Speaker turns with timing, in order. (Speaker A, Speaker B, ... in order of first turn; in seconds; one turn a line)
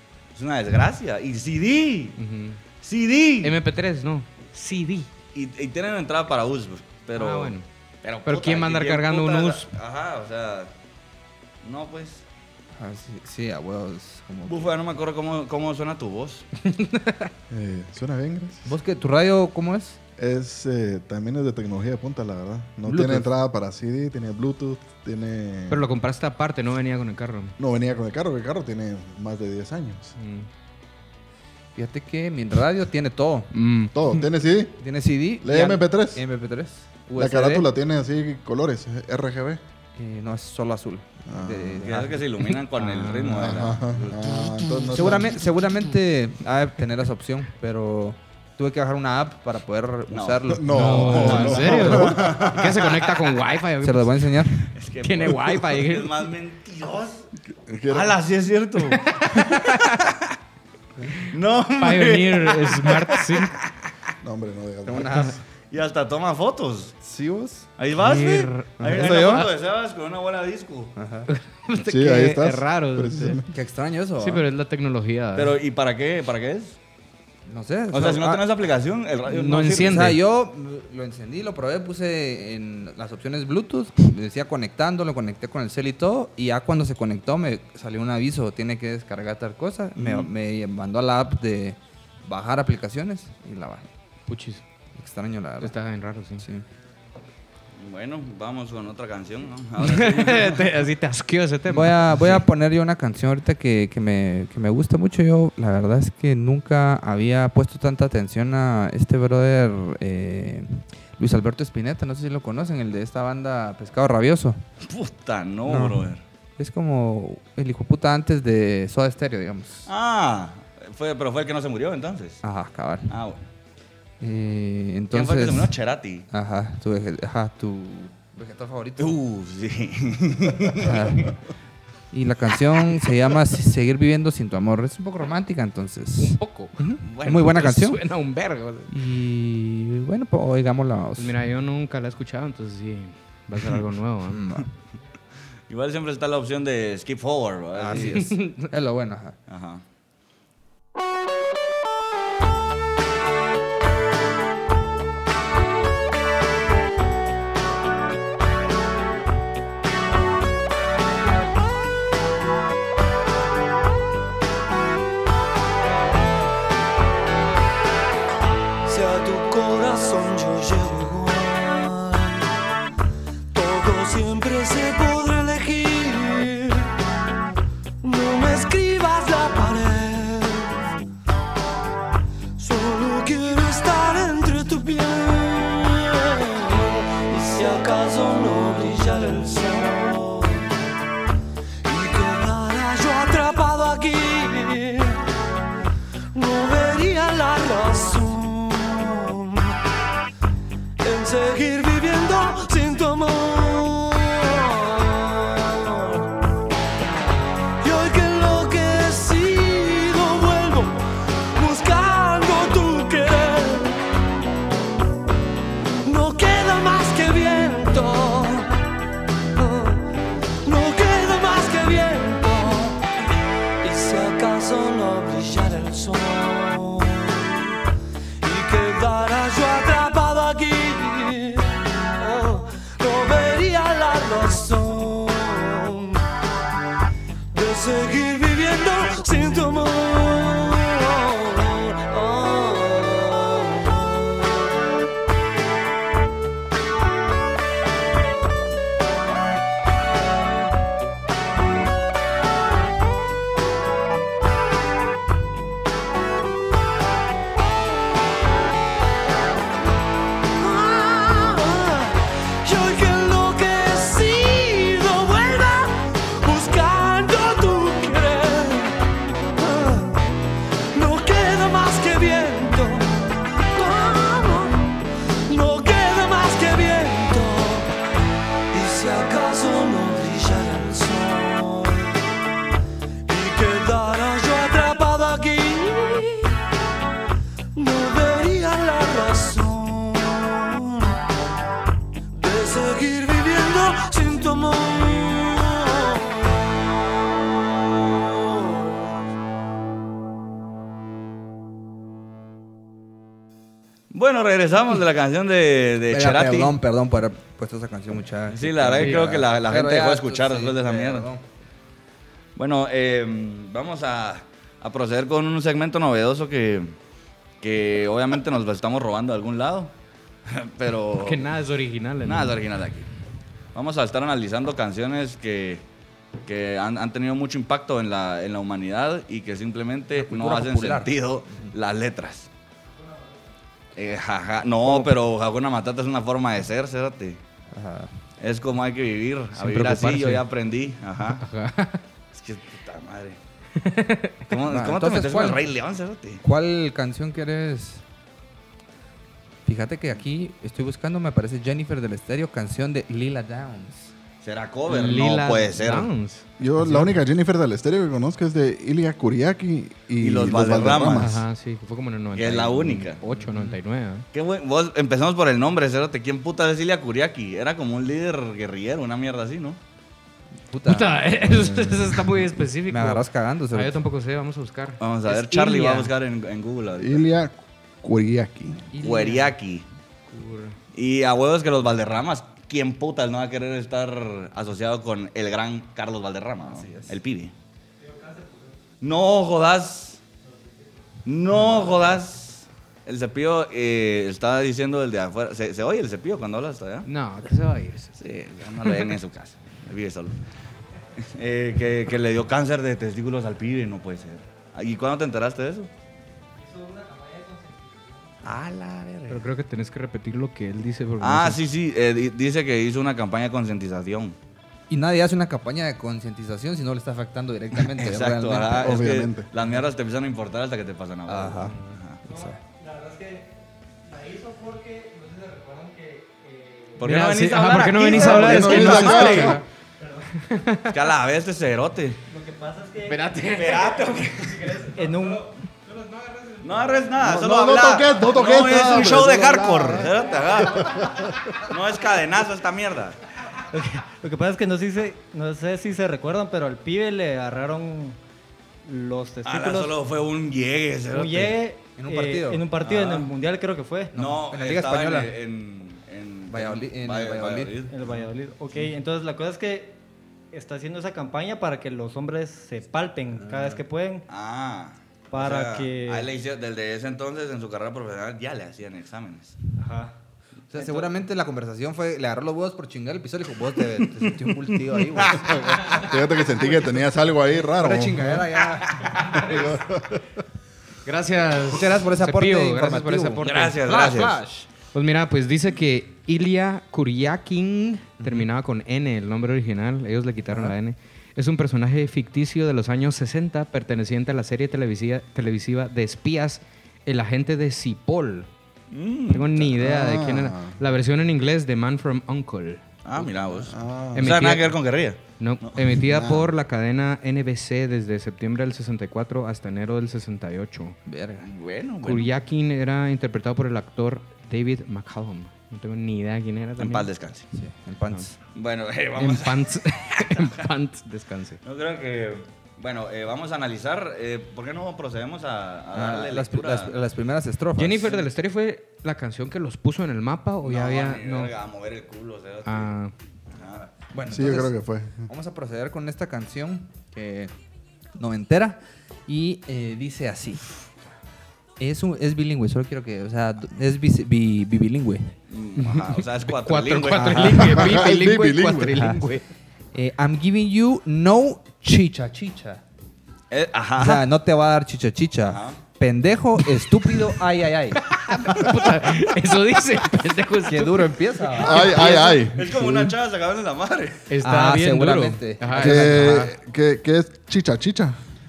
Speaker A: 0.3-2.2
Speaker B: 2.2-2.6
Speaker A: 2.8-3.6
Speaker B: 3.4-5.1
Speaker A: 5.3-10.7
Speaker B: 7.1-7.7
Speaker B: 8.2-9.7
Speaker A: 11.6-12.2
Speaker C: 12.8-14.7
Speaker A: 14.5-16.5
Speaker B: 16.7-17.3
Speaker D: 17.5-18.7
Speaker C: 18.6-20.0
Speaker D: 20.2-25.9
Speaker C: 22.8-23.3
Speaker B: 25.7-27.6
Speaker D: 27.6-30.1
Speaker B: 30.2-30.5
Speaker C: 31.8-33.5
Speaker B: 33.5-34.2
Speaker D: 33.9-34.8
Speaker C: 34.8-37.7
Speaker D: 35.4-36.2
Speaker D: 37.1-39.6
Speaker C: 40.0-42.2
Speaker D: 41.3-41.9
Speaker A: 41.8-44.0
Speaker B: 42.7-43.6
Speaker D: 43.3-45.4
Speaker C: 44.9-51.8
Speaker A: 50.1-53.4
Speaker D: 50.5-52.6
Speaker B: 50.7-56.3
Speaker C: 53.8-54.7
Speaker A: 54.7-57.3
Speaker D: 57.5-58.2
Speaker A: 57.9-60.2
Speaker B: 59.1-60.0
Speaker A: 61.2-63.7
Speaker B: 61.8-63.5
Speaker D: 64.2-65.4
Speaker C: 64.8-65.4
Speaker A: 65.7-66.9
Speaker D: 67.0-67.6
Speaker A: 67.8-70.9
Speaker B: 68.0-69.5
Speaker C: 68.8-69.5
Speaker C: 71.0-71.3
Speaker B: 71.3-73.4
Speaker D: 71.8-73.5
Speaker C: 73.5-74.4
Speaker B: 74.2-75.5
Speaker A: 75.3-76.8
Speaker C: 77.5-78.4
Speaker A: 77.9-80.1
Speaker B: 79.3-80.2
Speaker C: 79.8-93.9
Speaker A: 90.0-90.3
Speaker B: 94.3-94.6
Speaker C: 95.0-95.7
Speaker B: 95.6-96.4
Speaker C: 96.4-96.6
Speaker A: 97.8-100.7
Speaker B: 99.8-102.4
Speaker C: 101.7-114.6
Speaker A: 114.8-116.2
Speaker C: 115.6-119.9
Speaker A: 119.8-122.4
Speaker C: 122.4-123.1
Speaker A: 123.1-123.4
Speaker C: 124.2-125.7
Speaker A: 125.1-126.3
Speaker C: 126.3-129.2
Speaker A: 129.0-131.4
Speaker C: 130.8-131.3
Speaker C: 132.1-136.4
Speaker B: 136.2-138.9
Speaker C: 136.9-138.0
Speaker A: 137.0-137.7
Speaker C: 138.9-141.3
Speaker B: 141.2-144.6
Speaker C: 144.3-144.7
Speaker A: 145.7-148.3
Speaker C: 147.7-149.4
Speaker B: 147.9-148.7
Speaker A: 149.5-149.8
Speaker E: 168.8-172.5
Speaker E: 173.5-176.9
Speaker E: 178.0-180.9
Speaker E: 182.6-190.7
Speaker E: 191.8-195.2
Speaker E: 196.3-199.8
Speaker E: 201.0-206.2
Speaker E: 207.8-214.0
Speaker E: 216.0-218.7
Speaker E: 219.6-220.0
Speaker E: 220.6-223.0
Speaker E: 223.8-227.8
Speaker E: 228.4-236.2
Speaker E: 237.5-244.6
Speaker E: 260.6-269.0
Speaker E: 269.6-270.2
Speaker E: 270.9-274.9
Speaker E: 275.5-277.9
Speaker E: 278.7-282.2
Speaker E: 283.3-286.6
Speaker E: 287.7-291.1
Speaker E: 292.3-296.3
Speaker A: 304.1-306.8
Speaker C: 306.1-311.4
Speaker A: 308.5-311.3
Speaker B: 309.0-309.4
Speaker A: 312.6-316.9
Speaker A: 317.6-319.9
Speaker A: 320.5-321.5
Speaker B: 321.2-322.6
Speaker A: 322.2-323.1
Speaker A: 323.7-325.8
Speaker A: 326.4-332.5
Speaker C: 330.2-331.7
Speaker A: 333.9-337.4
Speaker C: 334.8-335.1
Speaker C: 337.7-338.1
Speaker A: 338.4-341.4
Speaker C: 339.6-340.4
Speaker B: 339.8-340.3
Speaker B: 341.3-342.0
Speaker A: 342.3-343.4
Speaker B: 343.8-344.4
Speaker A: 344.5-346.4
Speaker C: 344.7-345.6
Speaker C: 346.4-348.0
Speaker C: 349.6-354.1
Speaker A: 354.4-356.1
Speaker B: 354.9-357.1
Speaker D: 356.6-361.4
Speaker A: 360.2-361.3
Speaker B: 361.1-364.2
Speaker A: 362.3-363.2
Speaker C: 363.4-363.7
Speaker A: 364.3-369.8
Speaker C: 370.7-371.2
Speaker B: 370.9-376.1
Speaker D: 371.5-372.0
Speaker C: 372.9-374.0
Speaker A: 375.0-377.3
Speaker D: 377.0-378.9
Speaker C: 378.9-379.5
Speaker A: 379.0-379.9
Speaker B: 380.3-380.8
Speaker A: 380.9-387.5
Speaker C: 386.6-387.2
Speaker F: 388.0-388.8
Speaker A: 389.0-390.2
Speaker A: 391.2-397.1
Speaker B: 397.0-398.1
Speaker A: 398.2-400.4
Speaker A: 401.2-405.9
Speaker F: 406.6-408.3
Speaker A: 408.4-409.4
Speaker B: 409.3-411.6
Speaker A: 411.2-414.4
Speaker C: 414.9-419.2
Speaker A: 417.8-422.2
Speaker D: 418.8-419.5
Speaker C: 421.3-422.6
Speaker F: 422.2-427.0
Speaker A: 427.0-429.6
Speaker B: 427.0-429.6
Speaker D: 428.1-429.6
Speaker F: 430.0-430.3
Speaker B: 430.4-430.9
Speaker A: 430.9-432.2
Speaker F: 432.3-433.3
Speaker B: 433.0-434.2
Speaker A: 433.5-434.8
Speaker F: 434.6-436.9
Speaker A: 436.6-443.2
Speaker D: 437.2-441.4
Speaker F: 443.7-448.2
Speaker F: 448.8-450.0
Speaker A: 449.4-451.6
Speaker F: 451.1-454.1
Speaker C: 452.0-452.7
Speaker A: 452.8-453.3
Speaker C: 454.1-455.3
Speaker A: 454.1-458.2
Speaker C: 456.5-457.7
Speaker F: 457.9-460.0
Speaker F: 460.5-464.2
Speaker C: 463.4-463.8
Speaker A: 464.3-469.6
Speaker F: 465.3-466.3
Speaker F: 469.8-470.1
Speaker C: 470.7-476.1
Speaker A: 475.1-475.9
Speaker D: 475.9-478.4
Speaker C: 476.6-476.9
Speaker C: 477.5-479.5
Speaker A: 478.9-479.4
Speaker D: 479.2-480.2
Speaker B: 481.0-484.2
Speaker C: 481.7-484.7
Speaker A: 483.4-484.4
Speaker B: 484.9-498.5
Speaker C: 488.2-488.5
Speaker A: 498.9-499.7
Speaker B: 499.3-502.8
Speaker D: 499.8-500.8
Speaker A: 503.0-505.9
Speaker C: 503.2-503.5
Speaker D: 503.6-504.4
Speaker B: 504.1-504.8
Speaker B: 505.4-511.0
Speaker D: 506.1-506.5
Speaker C: 511.1-511.4
Speaker A: 511.4-512.3
Speaker B: 512.0-517.1
Speaker A: 516.8-517.5
Speaker C: 517.5-518.4
Speaker A: 518.5-520.6
Speaker B: 519.1-521.6
Speaker A: 521.6-526.9
Speaker C: 525.9-528.2
Speaker B: 527.8-531.5
Speaker A: 530.6-532.9
Speaker B: 532.6-533.1
Speaker A: 533.5-533.9
Speaker C: 534.1-537.5
Speaker D: 534.3-535.3
Speaker C: 538.1-540.6
Speaker C: 541.8-545.3
Speaker A: 545.5-547.6
Speaker B: 545.8-549.5
Speaker C: 547.1-548.0
Speaker D: 547.6-549.2
Speaker C: 549.9-552.8
Speaker A: 553.5-554.2
Speaker C: 554.0-558.7
Speaker A: 555.5-555.8
Speaker B: 558.0-561.7
Speaker C: 560.7-562.5
Speaker D: 561.6-563.0
Speaker A: 561.8-564.3
Speaker B: 564.3-566.5
Speaker C: 564.4-566.5
Speaker D: 565.7-568.2